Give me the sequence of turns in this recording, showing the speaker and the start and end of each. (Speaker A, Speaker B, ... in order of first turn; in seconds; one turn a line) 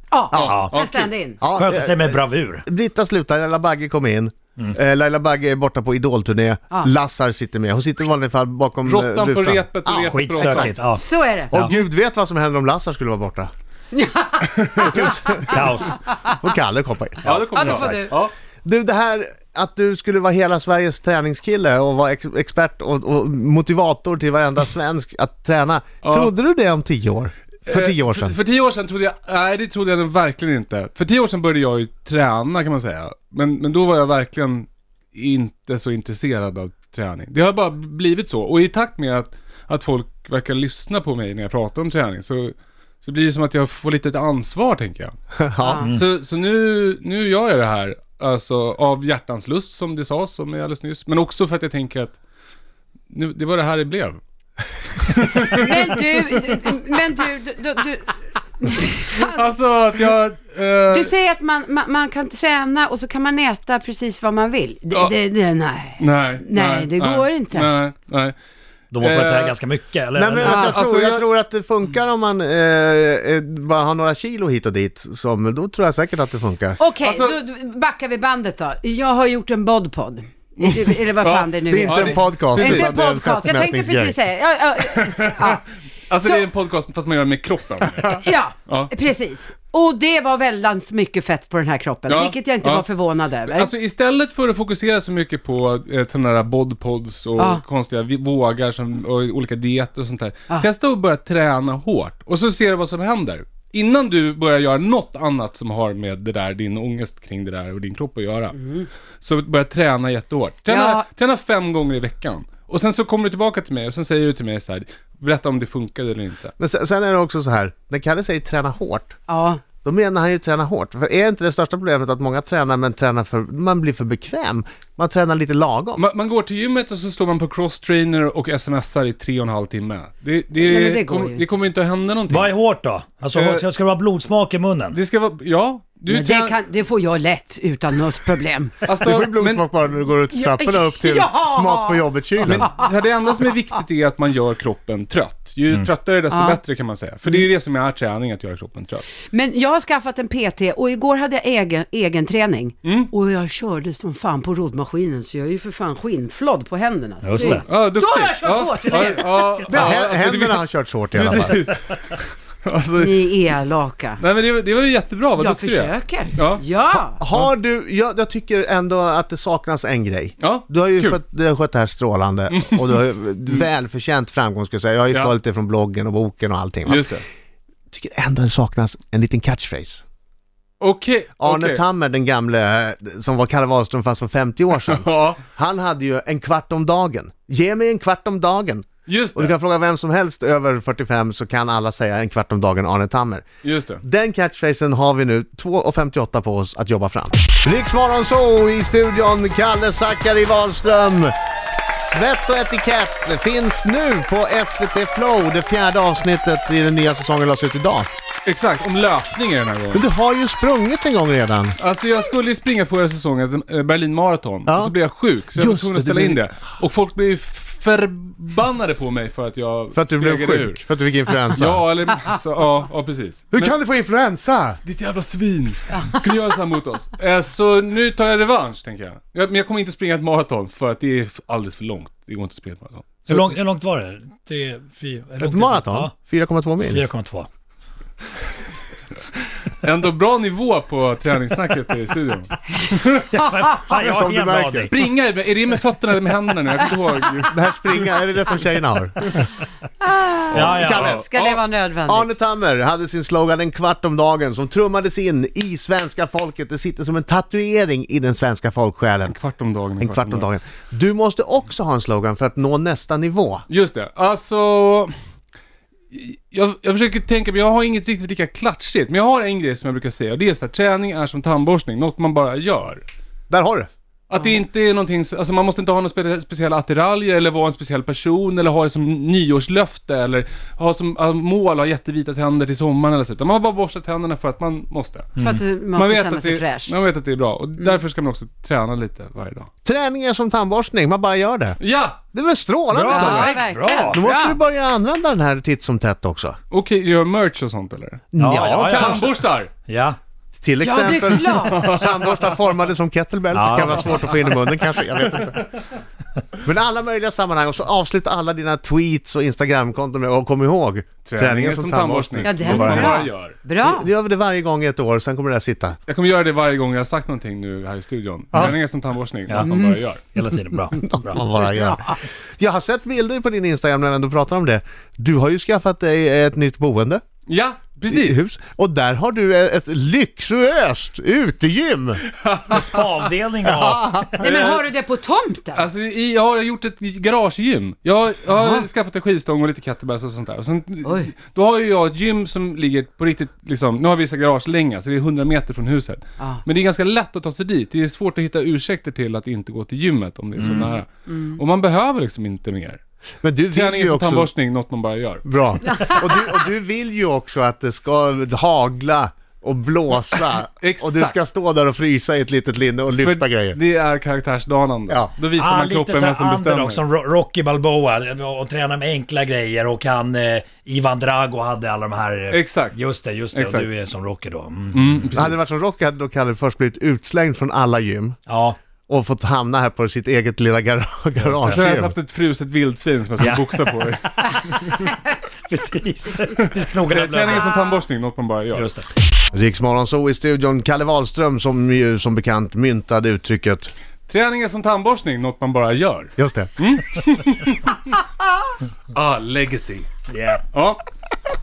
Speaker A: 0.1-1.4
Speaker B: 0.3-0.6
Speaker C: 0.3-1.1
Speaker D: 0.5-0.8
Speaker B: 1.4-10.9
Speaker D: 1.6-2.6
Speaker C: 8.8-10.8
Speaker D: 10.0-11.8
Speaker A: 10.9-11.5
Speaker B: 11.5-13.5
Speaker A: 13.9-15.4
Speaker C: 14.6-15.1
Speaker B: 14.8-18.1
Speaker D: 15.5-15.9
Speaker A: 15.9-16.4
Speaker C: 17.2-18.3
Speaker A: 17.4-18.1
Speaker B: 18.6-28.4
Speaker C: 26.0-26.3
Speaker C: 27.7-45.2
Speaker B: 45.4-45.9
Speaker A: 45.6-45.9
Speaker C: 45.9-52.2
Speaker C: 53.1-54.2
Speaker C: 55.0-56.5
Speaker A: 55.5-59.4
Speaker C: 59.1-61.1
Speaker A: 60.9-67.7
Speaker C: 66.0-68.3
Speaker D: 68.9-70.8
Speaker C: 69.0-69.6
Speaker B: 70.1-76.8
Speaker C: 70.4-71.3
Speaker A: 76.8-85.6
Speaker C: 77.0-77.4
Speaker C: 80.6-82.9
Speaker B: 81.7-84.2
Speaker C: 84.9-88.9
Speaker A: 88.2-93.7
Speaker C: 92.1-92.9
Speaker C: 93.5-108.6
Speaker A: 97.4-97.6
Speaker A: 108.6-108.9
Speaker C: 109.2-116.5
Speaker A: 110.7-111.0
Speaker B: 116.6-119.2
Speaker A: 119.3-119.6
Speaker B: 119.8-126.0
Speaker C: 126.0-132.5
Speaker A: 130.6-131.4
Speaker D: 132.3-135.0
Speaker C: 133.3-133.7
Speaker C: 134.9-136.5
Speaker A: 136.1-138.8
Speaker C: 138.8-139.7
Speaker B: 139.0-142.7
Speaker A: 140.3-142.0
Speaker C: 142.4-149.1
Speaker A: 142.6-142.8
Speaker A: 146.3-146.6
Speaker A: 149.3-160.0
Speaker C: 152.8-153.1
Speaker D: 157.2-157.6
Speaker C: 157.4-163.2
Speaker B: 159.7-161.6
Speaker A: 163.0-164.2
Speaker C: 164.2-166.6
Speaker A: 165.4-167.2
Speaker B: 167.1-177.1
Speaker C: 170.4-171.2
Speaker C: 172.5-173.0
Speaker C: 176.9-177.2
Speaker B: 177.9-180.0
Speaker C: 180.8-181.8
Speaker B: 181.4-193.4
Speaker C: 184.8-185.4
Speaker C: 189.1-189.5
Speaker C: 193.6-194.0
Speaker B: 194.0-201.3
Speaker B: 201.9-208.1
Speaker C: 208.5-210.1
Speaker B: 209.9-211.8
Speaker C: 211.8-220.8
Speaker B: 214.7-214.9
Speaker B: 215.5-216.4
Speaker B: 219.9-221.8
Speaker C: 221.5-223.7
Speaker B: 223.5-224.8
Speaker C: 224.8-233.5
Speaker D: 233.2-236.1
Speaker B: 235.4-237.0
Speaker D: 236.8-237.5
Speaker C: 239.7-243.3
Speaker D: 243.2-244.9
Speaker B: 243.9-244.9
Speaker C: 244.8-247.6
Speaker B: 247.5-249.4
Speaker A: 250.0-252.3
Speaker C: 250.5-251.6
Speaker D: 250.6-251.1
Speaker B: 250.7-251.2
Speaker B: 252.1-259.4
Speaker C: 259.3-260.5
Speaker B: 260.0-263.6
Speaker C: 263.7-265.1
Speaker C: 266.1-273.0
Speaker B: 273.5-273.9
Speaker C: 274.3-289.7
Speaker A: 285.4-286.9
Speaker B: 289.9-291.8
Speaker C: 291.8-292.2
Speaker B: 292.3-296.6
Speaker D: 292.9-294.2
Speaker A: 293.1-294.6
Speaker C: 296.7-299.7
Speaker B: 298.3-299.4
Speaker D: 298.4-300.2
Speaker B: 300.6-305.7
Speaker A: 300.8-301.9
Speaker C: 301.4-302.4
Speaker D: 303.5-304.6
Speaker B: 306.6-313.3
Speaker C: 311.2-313.6
Speaker A: 312.4-314.1
Speaker B: 313.8-316.0
Speaker C: 316.1-320.2
Speaker D: 319.5-319.7
Speaker D: 320.3-321.4
Speaker B: 321.0-327.2
Speaker A: 321.4-322.2
Speaker C: 327.5-328.4
Speaker B: 328.1-332.2
Speaker C: 332.4-333.1
Speaker D: 332.7-334.6
Speaker B: 333.6-334.7
Speaker A: 334.4-335.9
Speaker C: 334.4-334.9
Speaker C: 335.8-353.0
Speaker A: 338.5-338.8
Speaker A: 341.0-341.3
Speaker D: 350.6-351.0
Speaker A: 351.3-351.6
Speaker B: 353.4-354.5
Speaker C: 353.7-355.5
Speaker B: 355.4-363.8
Speaker A: 355.9-356.3
Speaker C: 360.8-361.4
Speaker C: 363.1-367.0
Speaker D: 365.6-375.2
Speaker C: 372.5-373.0
Speaker C: 373.5-373.9
Speaker C: 374.9-375.6
Speaker B: 375.3-378.4
Speaker D: 378.5-378.8
Speaker B: 379.1-382.2
Speaker D: 381.4-381.9
Speaker C: 381.7-385.1
Speaker D: 383.4-384.1
Speaker D: 384.6-385.1
Speaker D: 385.7-387.7
Speaker C: 386.6-388.9
Speaker D: 388.7-389.1
Speaker B: 389.5-393.9
Speaker C: 394.3-398.2
Speaker B: 396.4-396.7
Speaker C: 399.1-400.1
Speaker D: 400.3-400.6
Speaker C: 400.7-401.0